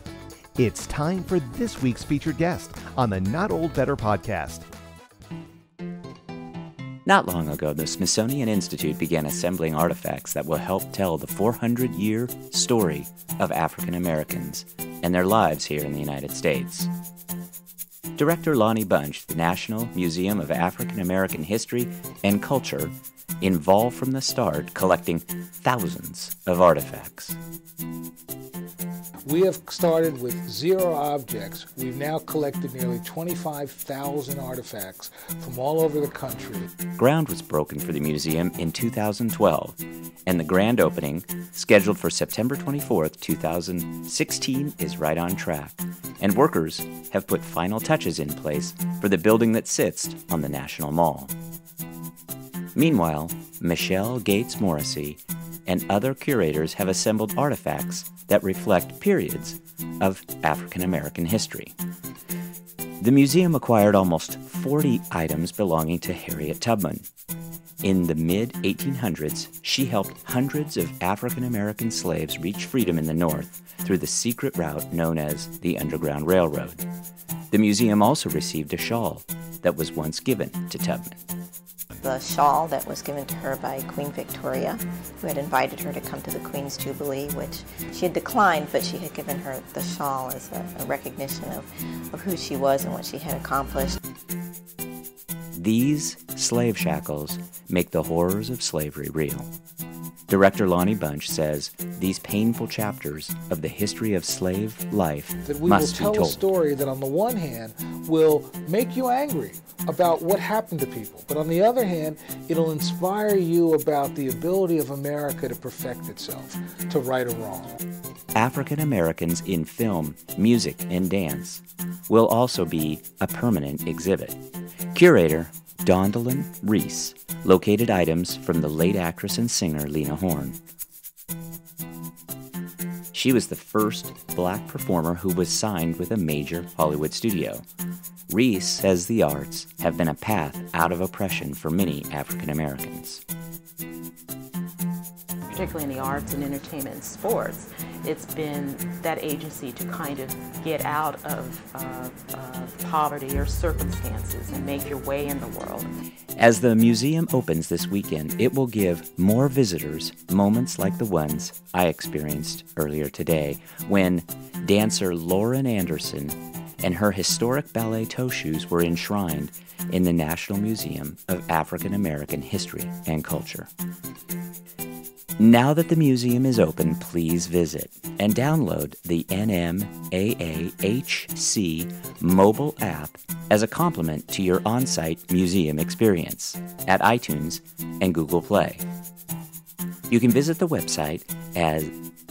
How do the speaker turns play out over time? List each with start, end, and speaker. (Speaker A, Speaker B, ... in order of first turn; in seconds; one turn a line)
Speaker A: 0.6-4.7
Speaker B: 7.1-16.9
Speaker B: 18.2-27.4
Speaker C: 29.2-36.7
Speaker B: 37.0-51.3
Speaker B: 52.8-61.8
Speaker B: 63.0-67.1
Speaker B: 67.8-76.8
Speaker B: 77.5-81.2
Speaker D: 82.0-94.0
Speaker B: 95.5-99.5
Speaker B: 100.3-106.5
Speaker C: 105.4-117.8
Speaker B: 118.3-124.4
Speaker B: 124.9-130.6
Speaker B: 133.1-137.6
Speaker B: 138.3-143.2
Speaker E: 145.5-155.9
Speaker B: 156.4-173.7
Speaker B: 175.4-188.8
Speaker B: 190.1-191.9